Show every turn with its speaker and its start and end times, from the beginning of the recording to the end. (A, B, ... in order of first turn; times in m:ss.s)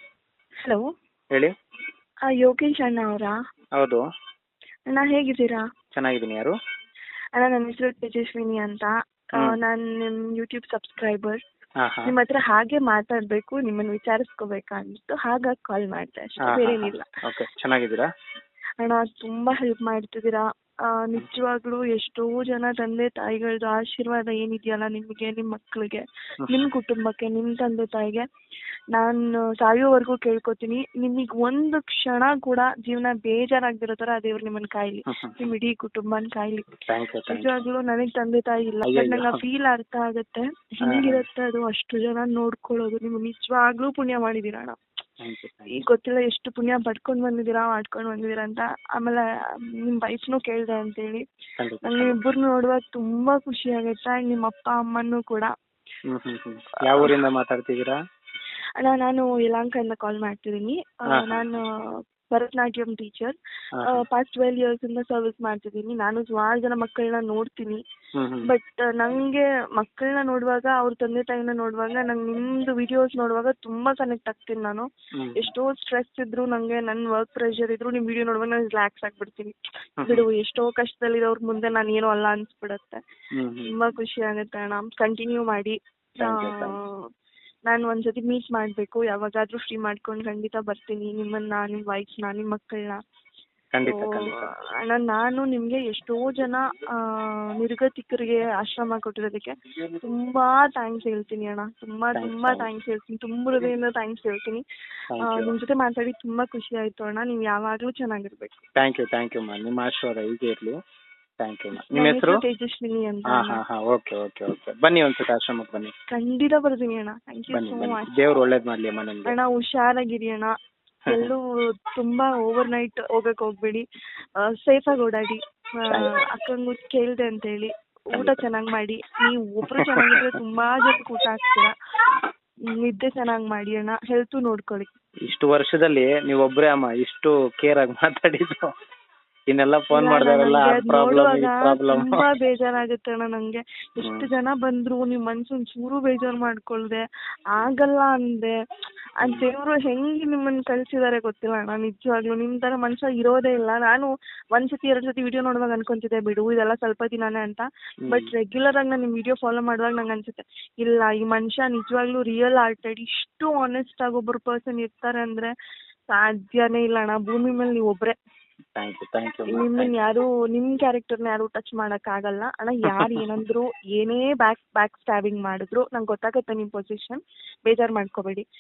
0:02.4-0:03.3 A
0:03.8-0:04.0 B
0:04.9-0:05.6 A
0:05.9-0:06.5 B
0:07.4-0:11.4 A
0:11.8-0:12.1 B
0:12.0-0:17.1 A
0:16.4-0:18.1 B
0:18.8-0:28.2 A
0:28.9-0:36.7 A
0:35.1-0:35.4 B
0:36.8-0:37.5 B
0:37.3-0:44.8 A
0:38.8-0:39.4 B
0:40.8-0:41.2 B
0:45.2-0:45.8 B
0:45.7-0:49.2 A
0:49.8-0:51.2 A
0:51.6-0:52.2 B
0:51.8-0:55.5 A
0:56.1-0:58.0 B
0:58.8-1:01.6 A
1:01.1-1:01.5 B
1:02.3-1:07.8 A
1:03.8-1:04.0 B
1:08.2-1:08.5 B
1:08.4-1:23.0 A
1:15.2-1:15.5 B
1:20.0-1:20.2 B
1:23.4-1:23.7 B
1:23.7-1:26.8 A
1:26.2-1:26.8 B
1:27.7-1:33.0 A
1:33.7-1:34.5 B
1:33.9-1:44.6 A
1:42.1-1:42.7 B
1:45.1-1:45.5 B
1:45.2-1:48.6 A
1:48.8-1:50.8 B
1:51.4-1:52.4 B
1:51.8-1:53.6 A
1:53.3-1:55.9 B
1:56.1-1:58.1 A
1:57.5-1:59.3 B
1:59.2-2:00.5 A
2:01.1-2:01.3 B
2:01.1-2:03.8 A
2:04.4-2:11.7 A
2:08.1-2:08.4 B
2:09.8-2:10.2 B
2:12.7-2:14.9 A
2:15.2-2:18.7 B
2:19.5-2:22.2 B
2:19.9-2:27.0 A
2:24.0-2:24.3 B
2:27.5-2:28.5 A
2:29.2-2:45.5 A
2:38.0-2:38.3 B
2:46.1-2:48.1 A
2:48.8-2:49.9 B
2:49.5-2:58.4 A
2:52.9-2:53.2 B